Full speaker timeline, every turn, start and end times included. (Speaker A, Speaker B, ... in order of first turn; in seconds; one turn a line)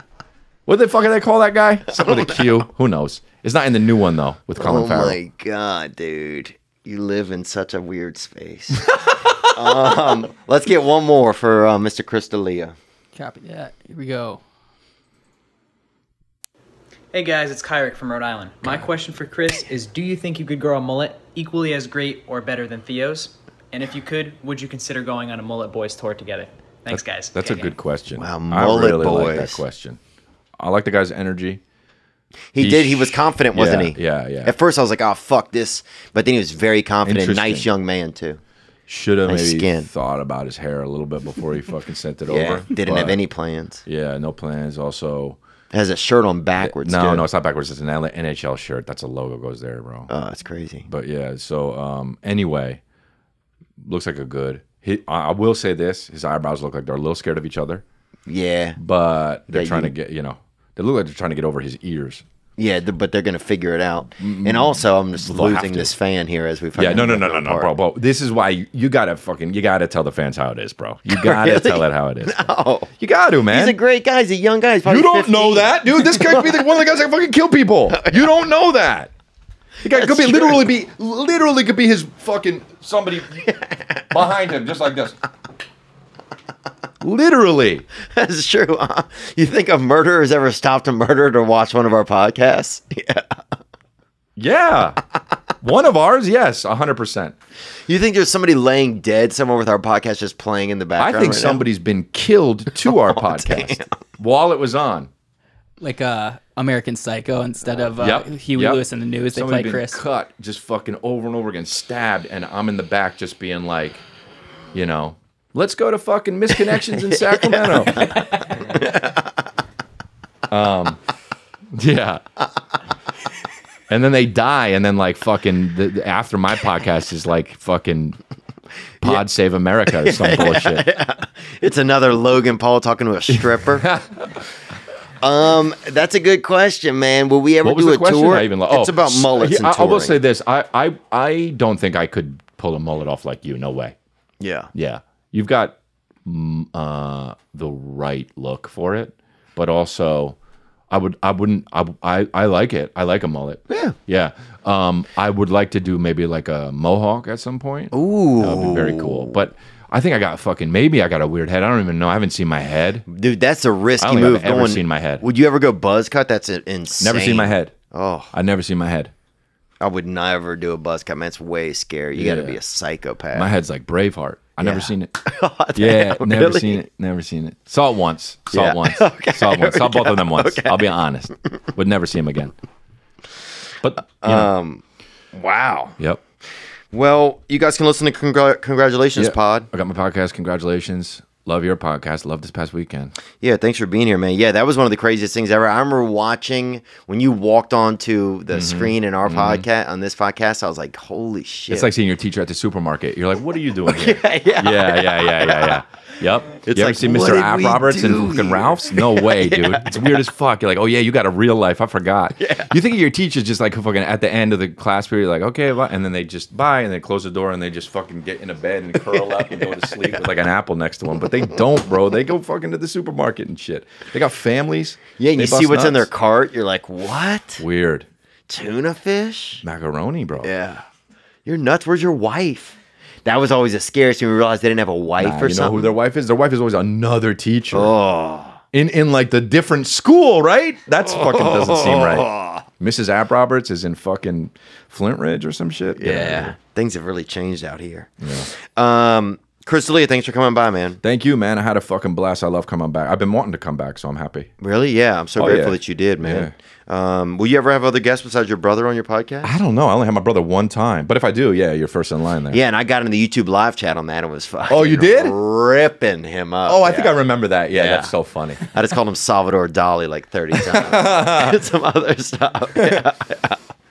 Speaker A: 0.7-5.2
Speaker B: 1.9-2.4
Speaker B: 4.6-12.7
Speaker C: 13.1-14.4
Speaker D: 17.1-27.8
Speaker A: 18.6-18.9
Speaker A: 26.9-30.0
Speaker B: 28.1-29.6
Speaker A: 30.6-31.6
Speaker B: 32.5-38.4
Speaker A: 32.6-34.5
Speaker A: 37.0-37.7
Speaker A: 38.9-43.2
Speaker B: 39.3-39.9
Speaker B: 42.3-43.8
Speaker A: 43.8-45.4
Speaker B: 45.7-47.3
Speaker A: 46.6-50.1
Speaker B: 50.1-50.9
Speaker A: 50.9-52.8
Speaker A: 53.8-57.8
Speaker B: 58.3-58.8
Speaker A: 58.8-62.2
Speaker B: 59.5-59.9
Speaker B: 62.6-67.7
Speaker A: 64.2-65.9
Speaker A: 66.7-72.5
Speaker B: 71.1-72.9
Speaker A: 73.0-73.8
Speaker B: 73.5-76.6
Speaker A: 74.8-79.1
Speaker B: 77.9-78.3
Speaker A: 79.8-83.5
Speaker B: 79.8-80.7
Speaker B: 83.4-84.0
Speaker A: 84.1-85.2
Speaker A: 87.0-87.8
Speaker B: 88.1-93.4
Speaker A: 94.4-95.0
Speaker A: 95.6-97.3
Speaker B: 97.9-101.7
Speaker A: 101.0-105.1
Speaker B: 102.8-104.0
Speaker C: 105.8-110.0
Speaker A: 108.0-114.0
Speaker A: 114.7-118.9
Speaker B: 117.2-118.2
Speaker B: 118.7-119.2
Speaker A: 120.5-121.0
Speaker A: 121.7-122.2
Speaker A: 123.9-128.2
Speaker A: 129.0-130.9
Speaker B: 129.9-133.9
Speaker A: 133.3-134.5
Speaker B: 135.2-140.2
Speaker A: 137.6-143.9
Speaker B: 144.4-144.7
Speaker A: 144.7-150.3
Speaker A: 150.9-163.1
Speaker B: 153.7-153.9
Speaker B: 157.9-159.4
Speaker B: 163.1-168.3
Speaker A: 164.0-165.2
Speaker A: 167.0-167.7
Speaker A: 168.3-169.1
Speaker B: 169.8-173.5
Speaker A: 172.1-172.6
Speaker A: 173.3-175.1
Speaker B: 174.6-176.8
Speaker A: 175.7-182.5
Speaker B: 178.5-180.8
Speaker A: 183.8-184.5
Speaker B: 184.1-184.8
Speaker B: 185.3-185.9
Speaker B: 186.9-189.7
Speaker A: 189.1-193.1
Speaker B: 193.4-201.9
Speaker A: 198.5-199.6
Speaker A: 201.7-226.1
Speaker B: 203.8-205.8
Speaker B: 206.6-210.2
Speaker B: 212.4-212.7
Speaker B: 225.2-227.6
Speaker A: 227.6-228.1
Speaker B: 228.5-229.6
Speaker A: 229.6-230.5
Speaker B: 230.4-230.8
Speaker B: 231.4-235.9
Speaker A: 235.2-237.9
Speaker B: 237.7-238.6
Speaker A: 238.7-246.5
Speaker B: 241.1-242.6
Speaker B: 246.0-251.0
Speaker A: 248.2-248.5
Speaker A: 251.0-254.5
Speaker B: 254.6-259.5
Speaker A: 255.4-256.5
Speaker A: 259.4-262.6
Speaker B: 262.5-267.1
Speaker A: 264.7-265.4
Speaker A: 266.6-268.6
Speaker B: 267.7-268.1
Speaker B: 268.6-273.6
Speaker A: 270.5-271.6
Speaker A: 272.8-273.0